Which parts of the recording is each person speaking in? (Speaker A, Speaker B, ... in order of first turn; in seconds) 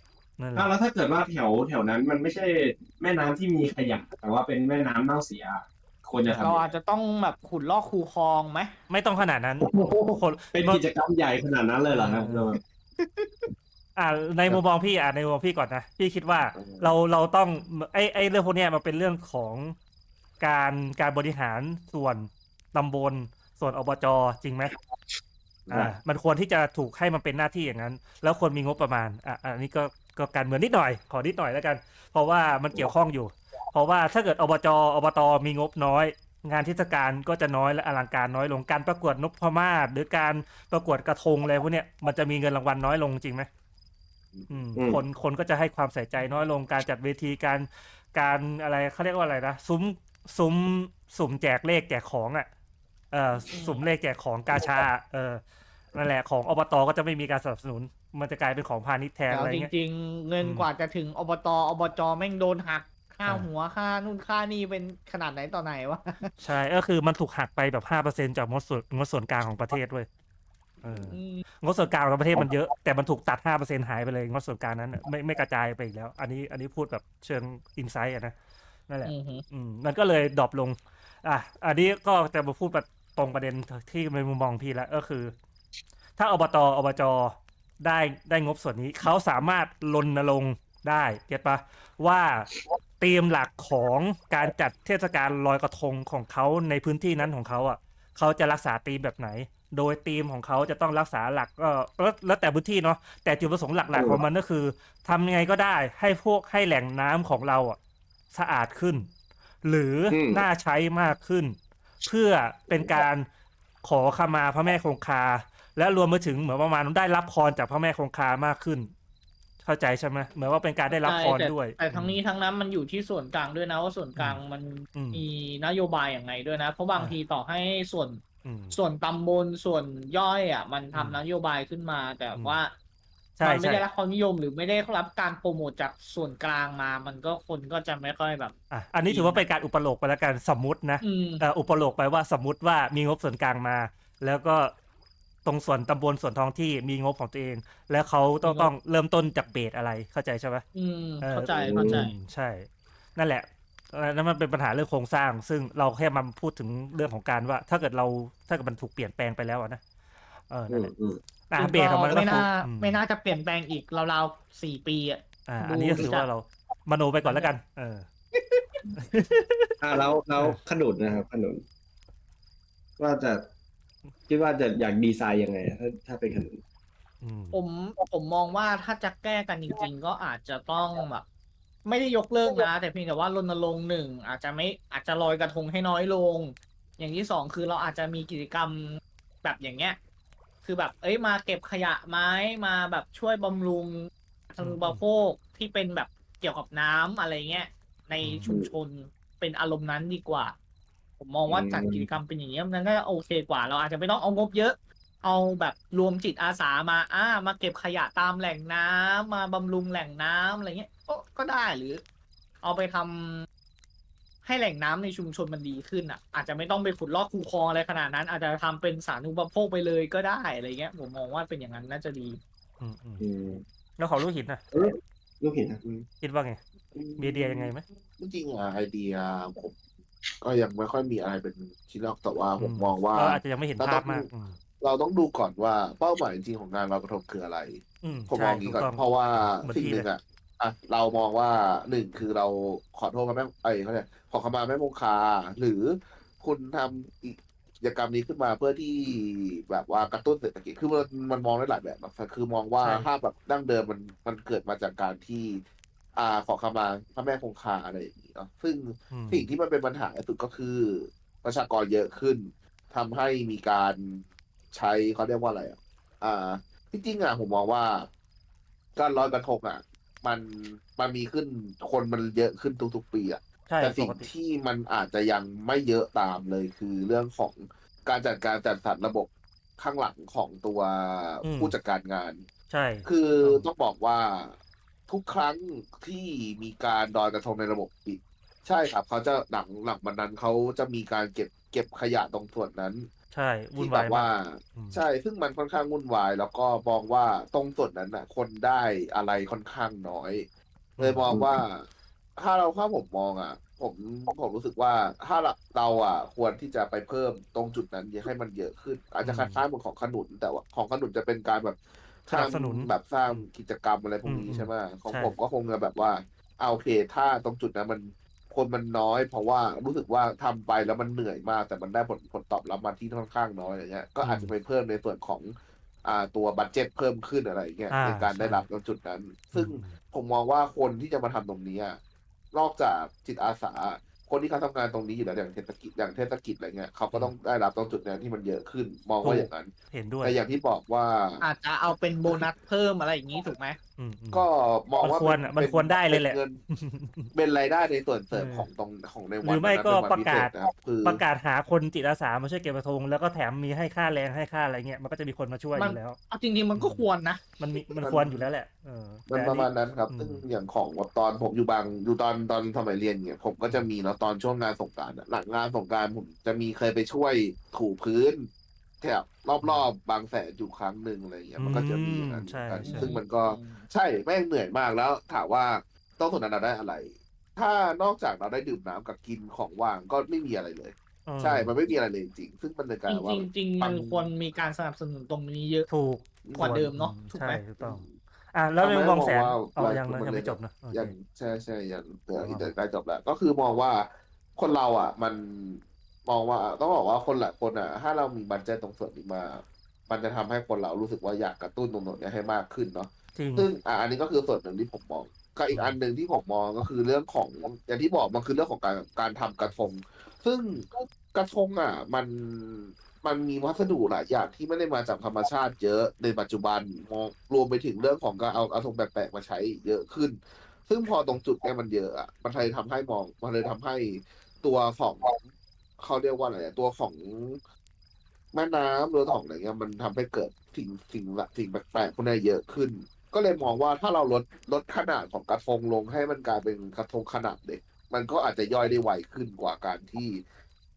Speaker A: 0.4-0.7, 8.9-10.8, 11.9-12.5, 13.9-19.8, 20.4-24.8, 25.7-43.5, 44.5-52.5, 53.1-55.4, 55.9-59.7, 60.4-60.7, 66.4-70.1, 70.8-78.3, 78.9-85.3, 86.2-107.8, 108.3-109.1, 109.6-113.2, 113.8-118.9, 119.6-122.2, 124.9-125.2, 128.4-128.8, 130.9-131.2, 133.4-133.8, 138.7-144.7, 145.4-150.6, 151.2-159.8, 160.5-160.9, 161.5-163.0, 165.5-168.1, 168.9-169.8, 177.2-177.6, 194.6-195.0, 198.2-198.5, 222.8-223.2, 224.0-224.6, 226.2-226.6, 227.2-227.8, 232.6-234.6, 238.0-240.1, 252.8-253.1, 259.1-259.5, 273.7-274.3, 281.4-281.7, 282.7-283.7, 293.3-295.0, 301.0-301.3, 309.2-309.6, 312.3-313.4, 314.2-315.3, 324.2-324.5, 327.9-328.6, 329.5-329.9, 339.2-340.4, 344.0-344.4, 345.0-347.3, 348.3-348.7, 349.4-350.5, 351.0-356.2, 356.7-357.0, 357.6-360.4, 371.6-373.1, 381.3-381.7, 385.9-391.1, 392.4-392.7, 403.4-403.7, 405.7-406.0
Speaker B: 0.6-6.7, 9.6-12.6, 44.8-45.0, 103.9-104.2, 110.1-110.4, 151.6-152.1, 160.7-161.2, 169.8-171.6, 173.0-173.5, 174.3-176.6, 201.5-202.1, 223.2-223.6, 224.7-225.8
Speaker C: 6.4-8.7, 53.5-53.8, 59.3-66.3, 71.1-71.4, 79.0-79.4, 121.0-132.7, 133.4-138.5, 139.1-139.4, 141.0-141.4, 148.4-148.7, 150.7-152.1, 161.6-166.3, 167.2-167.5, 177.5-181.2, 181.8-190.0, 190.6-200.6, 201.2-212.0, 212.6-213.5, 214.4-222.4, 341.4-343.8, 355.7-357.4, 372.8-373.9, 383.1-385.9, 386.6-387.6
Speaker D: 16.5-16.9, 226.9-229.8, 230.4-234.3, 234.8-255.6, 256.1-268.1, 268.9-282.5, 283.0-293.1, 293.8-300.5, 301.0-332.0, 332.5-341.4, 344.3-346.6, 347.3-351.2, 358.0-358.4, 359.3-368.5, 369.0-384.3, 386.4-386.8, 387.8-388.1, 388.8-425.4, 426.0-427.6, 428.5-440.4